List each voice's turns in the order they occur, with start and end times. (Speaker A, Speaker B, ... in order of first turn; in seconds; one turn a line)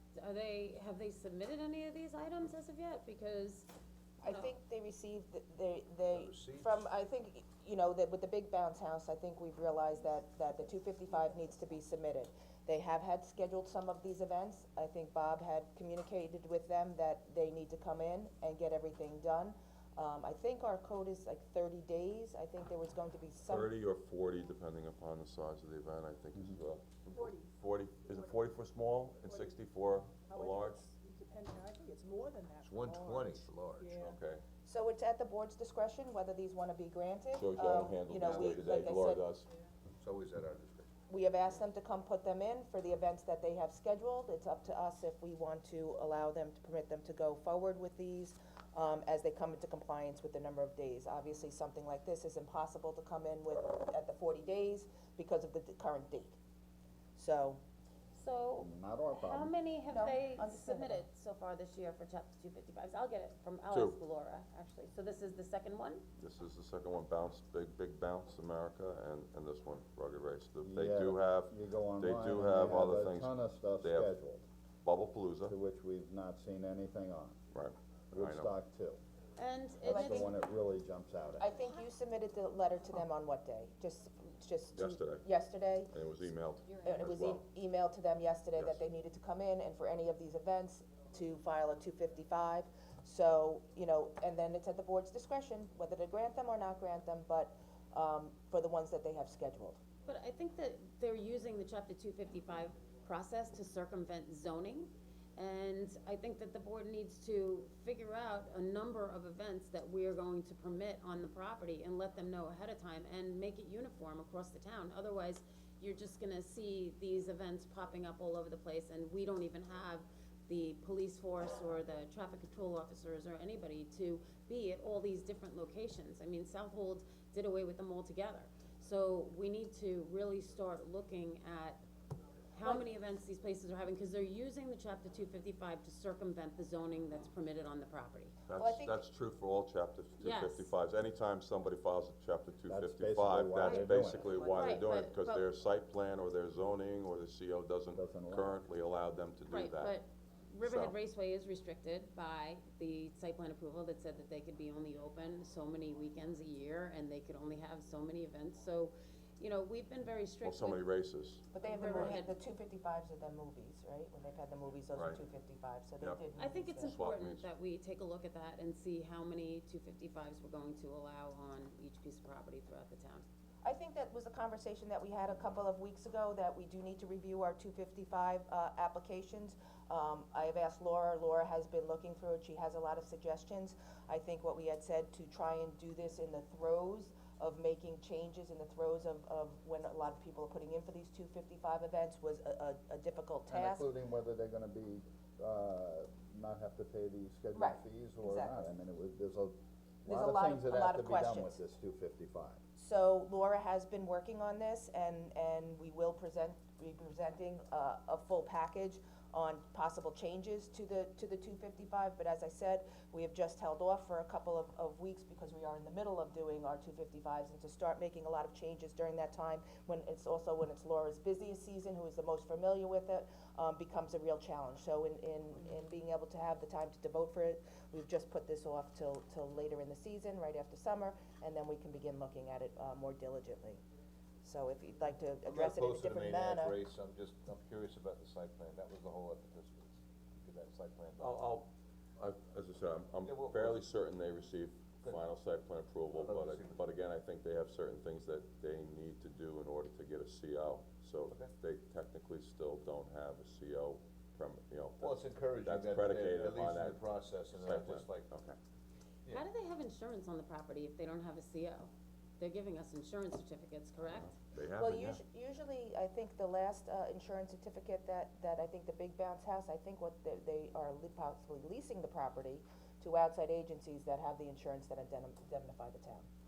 Speaker A: 0.1-3.7
Speaker B: 4.2-23.7
Speaker A: 4.2-4.5
Speaker C: 6.1-6.9
Speaker D: 23.4-30.9
Speaker E: 30.4-33.2
Speaker C: 32.6-34.0
Speaker E: 33.8-34.1
Speaker D: 34.0-34.4
Speaker B: 34.6-39.2
Speaker D: 37.3-39.5
Speaker C: 38.2-38.7
Speaker C: 40.0-40.9
Speaker B: 41.1-56.4
Speaker B: 57.2-57.6
Speaker A: 58.1-66.0
Speaker F: 58.6-59.5
Speaker B: 59.9-61.0
Speaker D: 63.7-64.0
Speaker D: 66.2-74.1
Speaker F: 70.6-74.5
Speaker D: 74.8-75.5
Speaker F: 75.5-77.4
Speaker D: 77.5-78.5
Speaker F: 78.1-79.0
Speaker A: 79.4-80.3
Speaker F: 79.8-81.5
Speaker B: 79.9-80.3
Speaker B: 81.4-85.9
Speaker D: 84.7-85.3
Speaker D: 85.9-87.4
Speaker B: 86.8-99.8
Speaker D: 88.5-88.8
Speaker A: 100.0-131.8
Speaker A: 132.5-138.3
Speaker D: 138.5-149.9
Speaker B: 138.5-138.9
Speaker A: 140.2-140.7
Speaker F: 142.7-144.4
Speaker A: 143.6-145.4
Speaker F: 147.9-148.5
Speaker A: 149.5-160.8
Speaker D: 150.6-150.9
Speaker D: 160.4-161.4
Speaker B: 161.5-167.0
Speaker A: 161.6-162.3
Speaker D: 164.9-165.2
Speaker A: 166.3-173.3
Speaker D: 166.8-167.5
Speaker B: 173.6-193.9
Speaker F: 193.5-202.6
Speaker B: 197.5-198.5
Speaker B: 200.1-201.6
Speaker B: 202.8-233.8
Speaker B: 234.4-236.8
Speaker C: 235.4-241.4
Speaker D: 241.2-258.6
Speaker C: 243.2-243.9
Speaker C: 246.1-246.8
Speaker C: 255.0-258.3
Speaker A: 259.3-264.3
Speaker D: 264.1-265.2
Speaker B: 264.7-276.3